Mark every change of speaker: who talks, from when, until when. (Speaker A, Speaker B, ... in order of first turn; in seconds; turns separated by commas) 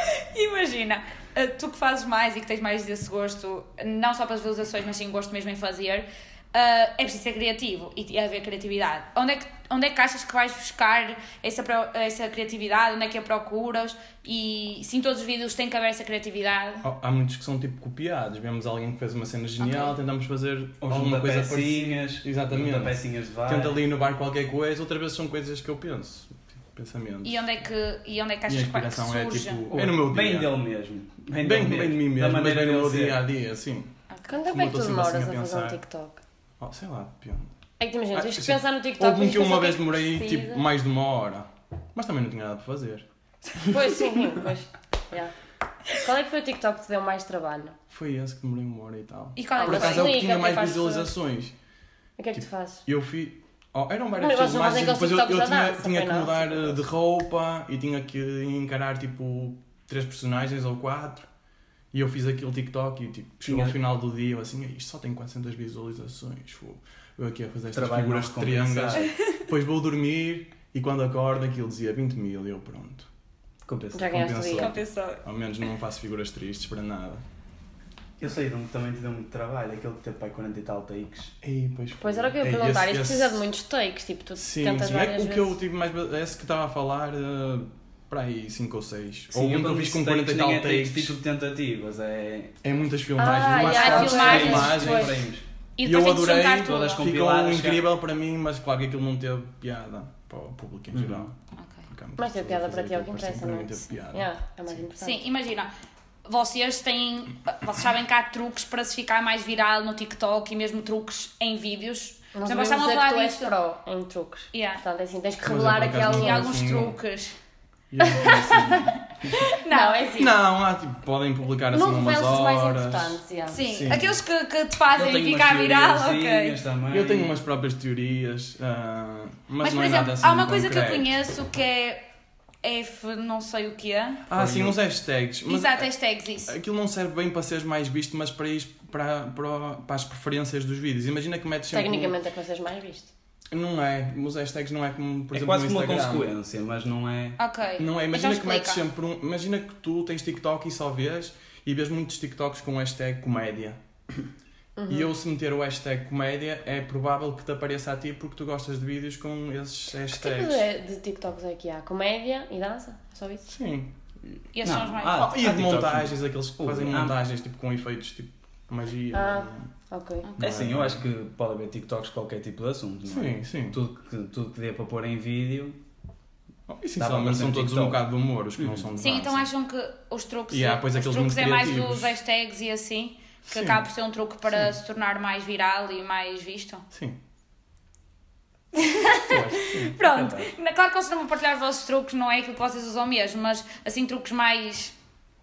Speaker A: 0.3-16.9, Speaker B: 16.8-27.5, Speaker A: 19.6-19.9, Speaker C: 20.8-23.8, Speaker A: 27.2-29.7, Speaker B: 28.5-30.5, Speaker C: 29.7-33.2, Speaker B: 31.3-33.9, Speaker A: 34.1-34.4, Speaker D: 34.3-36.2, Speaker B: 34.5-35.8, Speaker B: 36.6-37.5, Speaker D: 37.8-40.6, Speaker B: 38.1-43.1, Speaker D: 43.6-45.3, Speaker D: 46.0-47.8, Speaker B: 47.9-51.5, Speaker A: 49.4-50.2, Speaker D: 49.5-51.1, Speaker D: 52.2-52.8, Speaker B: 52.3-61.3, Speaker D: 54.1-56.8, Speaker B: 61.9-73.1, Speaker C: 63.4-63.8, Speaker C: 67.7-69.1, Speaker C: 73.7-74.2, Speaker D: 73.9-74.8, Speaker B: 74.1-77.2, Speaker A: 74.5-75.2, Speaker C: 78.2-81.3, Speaker B: 81.4-83.4, Speaker D: 82.0-85.6, Speaker B: 84.4-91.2, Speaker C: 89.3-92.6, Speaker B: 92.6-95.2, Speaker D: 93.2-95.2, Speaker C: 93.2-95.5, Speaker A: 93.6-94.8, Speaker A: 95.8-97.1, Speaker B: 95.8-101.3, Speaker C: 96.6-97.8, Speaker C: 100.9-101.3, Speaker A: 101.6-101.9, Speaker B: 101.9-104.3, Speaker D: 102.2-105.3, Speaker A: 105.0-105.7, Speaker A: 106.2-113.6, Speaker D: 112.3-116.6, Speaker A: 114.5-114.8, Speaker B: 115.4-117.0, Speaker A: 115.7-117.3, Speaker B: 117.9-119.3, Speaker D: 118.0-118.9, Speaker A: 119.3-120.0, Speaker D: 119.7-120.3, Speaker B: 120.2-124.2, Speaker D: 121.7-123.6, Speaker A: 123.5-126.6, Speaker C: 124.9-127.3, Speaker B: 126.9-131.1, Speaker A: 129.6-132.0, Speaker A: 132.6-134.3, Speaker B: 134.3-142.2, Speaker C: 134.4-134.8, Speaker A: 135.5-136.5, Speaker D: 141.7-143.1, Speaker B: 143.5-146.3, Speaker C: 145.3-147.4, Speaker A: 147.4-148.8, Speaker B: 147.8-153.8, Speaker D: 154.8-155.1, Speaker B: 154.9-160.6, Speaker D: 160.1-163.5, Speaker B: 163.5-163.9, Speaker A: 164.6-165.3, Speaker C: 164.6-167.2, Speaker B: 165.2-169.7, Speaker D: 169.1-170.3, Speaker B: 170.4-171.0, Speaker C: 170.4-175.8, Speaker B: 173.1-173.8, Speaker B: 176.7-179.5, Speaker C: 177.0-178.0, Speaker C: 178.6-178.9, Speaker A: 179.0-186.8, Speaker B: 180.5-182.2, Speaker B: 183.5-183.8, Speaker B: 186.9-187.2, Speaker D: 188.8-189.4, Speaker B: 189.3-189.9, Speaker C: 189.4-190.5, Speaker A: 189.7-194.9